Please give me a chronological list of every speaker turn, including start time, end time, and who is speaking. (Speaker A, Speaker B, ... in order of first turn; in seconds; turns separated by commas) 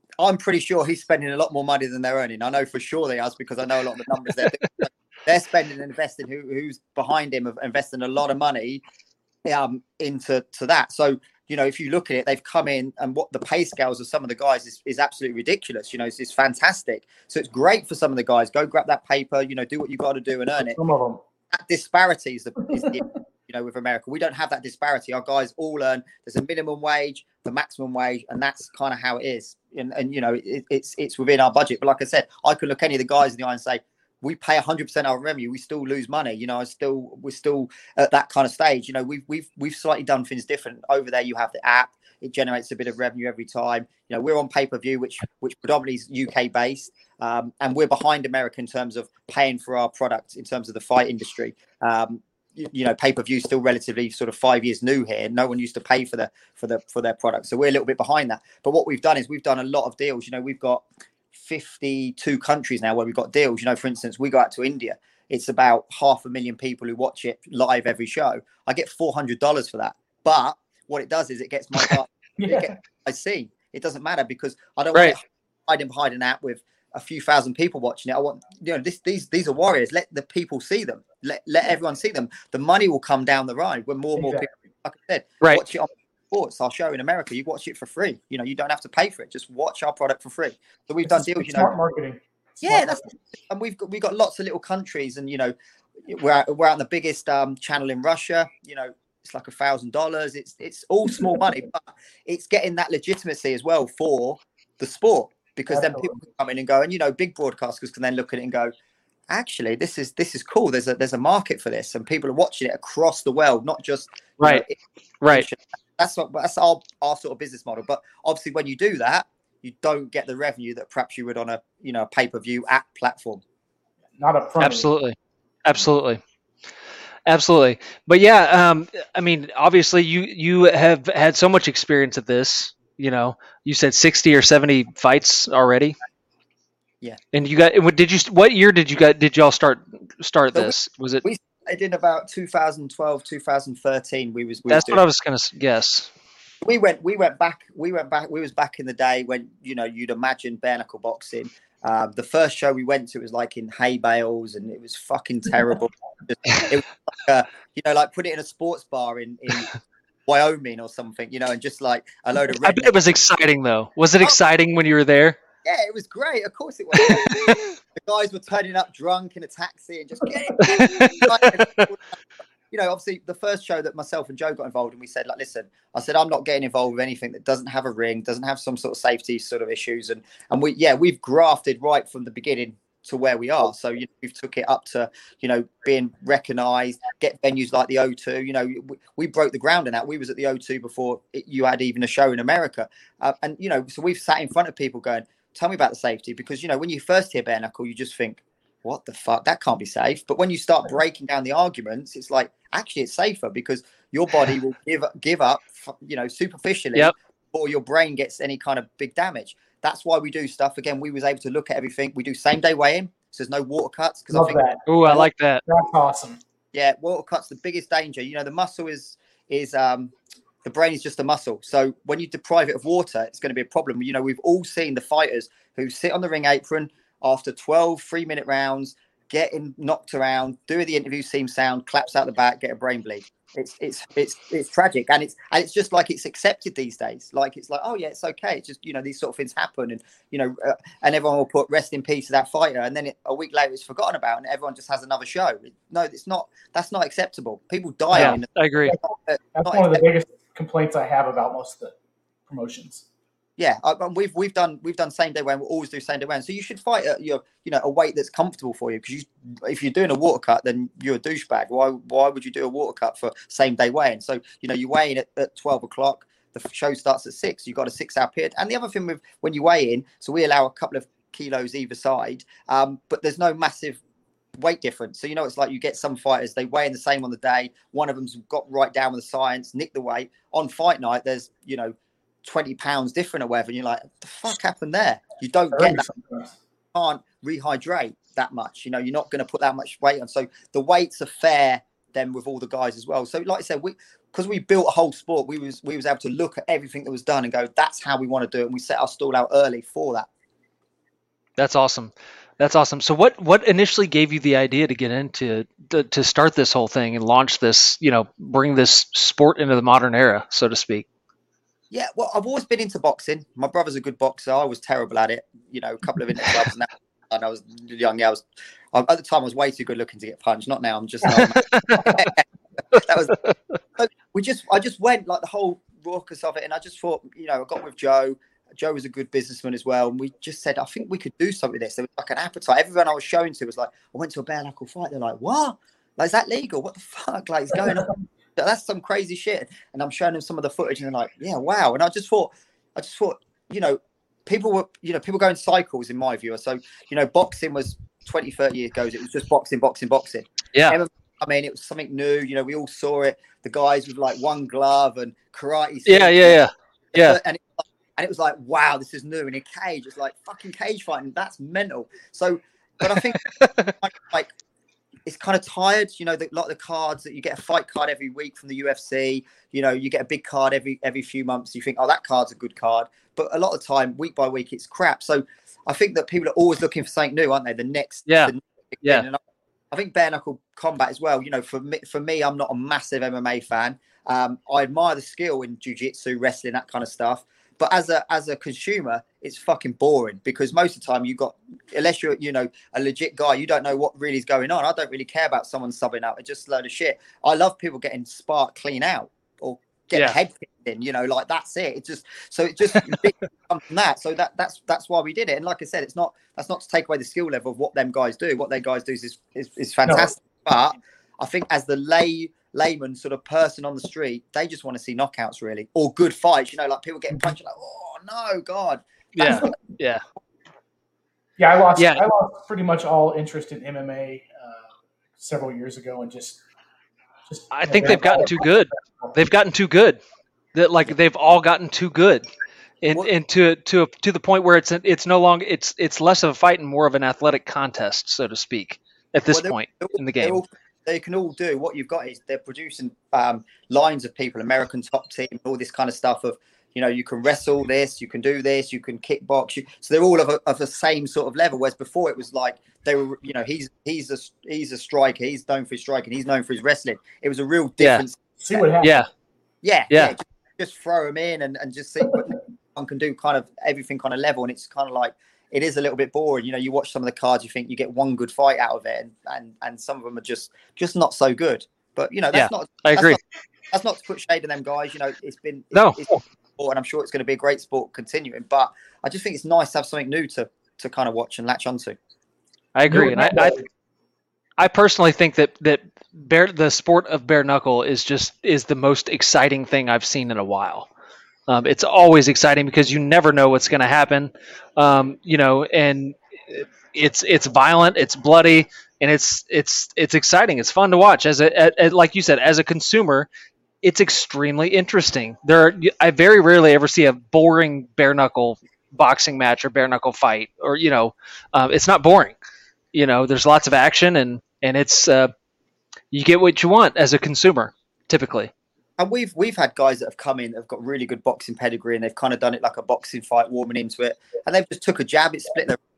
Speaker A: 0.2-8.8, Speaker A: 9.5-20.8, Speaker B: 20.6-21.2, Speaker A: 21.5-91.7, Speaker B: 22.7-23.0, Speaker B: 72.4-72.7, Speaker B: 84.2-84.6, Speaker B: 91.1-93.1, Speaker A: 92.6-108.7, Speaker B: 105.7-106.2, Speaker A: 109.3-114.8, Speaker C: 115.2-115.5, Speaker A: 115.3-123.4, Speaker B: 124.2-124.9, Speaker C: 124.6-126.2, Speaker C: 127.3-135.9, Speaker C: 137.3-141.2, Speaker A: 140.5-145.0, Speaker C: 144.7-146.1, Speaker A: 146.6-159.7, Speaker A: 160.3-163.1, Speaker C: 162.6-165.4, Speaker A: 165.6-172.0, Speaker C: 167.0-167.7, Speaker C: 170.6-171.9, Speaker A: 172.7-214.6, Speaker B: 214.3-216.4, Speaker C: 214.9-215.6, Speaker A: 216.7-220.1, Speaker A: 220.6-250.0, Speaker C: 248.1-249.0, Speaker B: 249.6-251.9, Speaker B: 252.5-253.0, Speaker A: 253.6-274.0, Speaker A: 274.6-286.1, Speaker B: 285.7-286.5, Speaker A: 286.9-300.3, Speaker C: 301.6-311.1, Speaker A: 311.9-323.4, Speaker C: 321.2-322.2, Speaker A: 324.0-364.5, Speaker C: 356.1-357.4, Speaker C: 363.4-363.9, Speaker A: 365.3-419.7, Speaker C: 378.3-378.5, Speaker B: 410.1-410.3, Speaker C: 419.4-420.2, Speaker B: 419.4-419.8, Speaker B: 421.6-426.6, Speaker C: 422.0-422.2, Speaker B: 427.5-429.4, Speaker C: 427.7-430.2, Speaker C: 430.7-432.4, Speaker C: 433.0-440.6, Speaker A: 439.5-458.9, Speaker C: 458.0-458.2, Speaker B: 458.6-459.2, Speaker A: 459.8-473.4, Speaker C: 460.1-460.4, Speaker C: 472.5-473.4, Speaker A: 473.9-482.2, Speaker C: 475.9-476.4, Speaker C: 482.9-483.8, Speaker B: 483.1-483.9, Speaker C: 484.8-491.1, Speaker C: 491.7-503.5, Speaker C: 504.0-512.6, Speaker C: 513.1-515.5, Speaker C: 516.3-518.7, Speaker A: 519.2-526.0